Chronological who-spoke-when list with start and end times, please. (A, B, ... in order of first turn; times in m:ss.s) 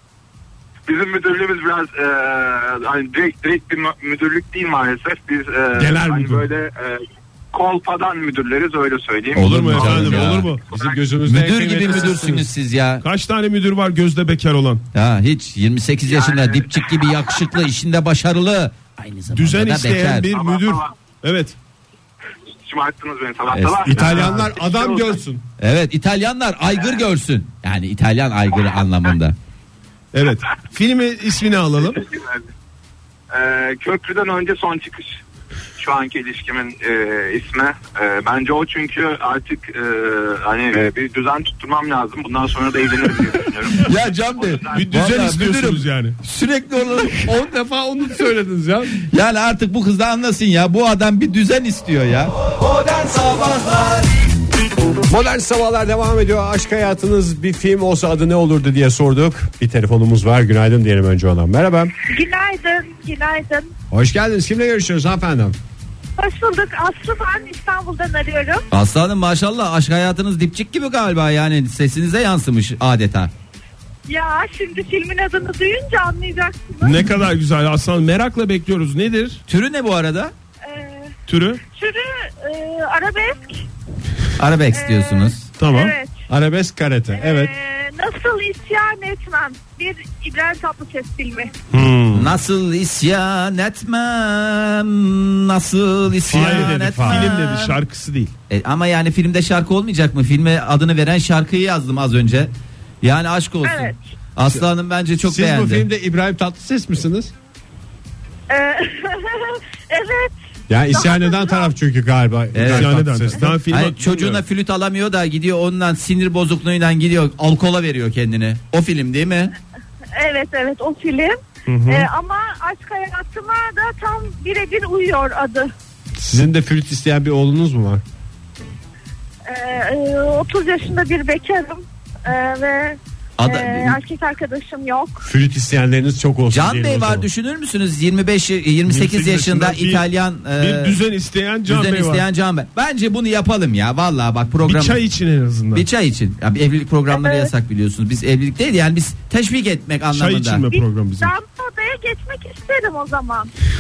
0:00.9-0:11.0 A
0:05.8-0:06.5 B
0:09.3-0:10.5 C
0:09.4-0:10.6 D
0:10.7-0:12.5 B
0:11.2-0:13.0 C
0:11.8-0:12.1 A
0:13.0-0:14.8 D
0:14.9-0:20.3 C
0:16.1-0:17.4 A
0:19.3-0:21.6 D
0:20.2-0:20.9 A
0:22.6-0:25.2 A
0:23.5-0:24.3 C
0:23.8-0:25.4 B
0:25.6-0:29.4 C
0:30.1-0:32.0 D
0:31.9-0:32.4 A
0:33.3-0:35.2 A
0:35.8-0:45.2 A
0:43.8-0:47.4 C
0:44.7-0:46.2 D
0:47.2-0:49.0 B
0:49.0-0:54.1 C
0:55.1-1:01.9 B
1:02.1-1:03.7 E
1:03.9-1:05.6 B
1:06.2-1:08.6 E
1:08.7-1:13.3 C
1:14.1-1:17.1 E
1:16.8-1:19.4 D
1:19.5-1:20.3 C
1:20.6-1:21.1 E
1:21.3-1:21.6 D
1:21.6-1:23.7 E
1:24.4-1:25.4 C
1:24.7-1:26.2 E
1:25.6-1:25.9 D
1:26.3-1:27.5 B
1:27.1-1:31.5 E
1:31.7-1:32.4 D
1:32.1-1:37.8 C
1:36.2-1:38.3 D
1:36.3-1:37.3 B
1:38.5-1:45.9 C
1:43.6-1:44.0 E
1:45.2-1:47.3 B
1:48.5-1:50.3 E
1:50.7-1:53.6 B
1:50.9-1:51.8 E
1:52.5-1:52.9 C
1:52.6-1:54.4 D
1:53.7-1:59.6 C
2:00.2-2:05.7 E
2:01.7-2:02.1 D
2:06.2-2:08.0 B
2:09.5-2:15.3 E
2:13.4-2:14.0 C
2:15.2-2:17.3 B
2:16.5-2:21.0 C
2:18.9-2:22.3 D
2:21.7-2:25.0 C
2:24.6-2:25.9 D
2:25.7-2:30.6 C
2:27.1-2:27.5 E
2:30.1-2:31.3 D
2:30.7-2:33.5 E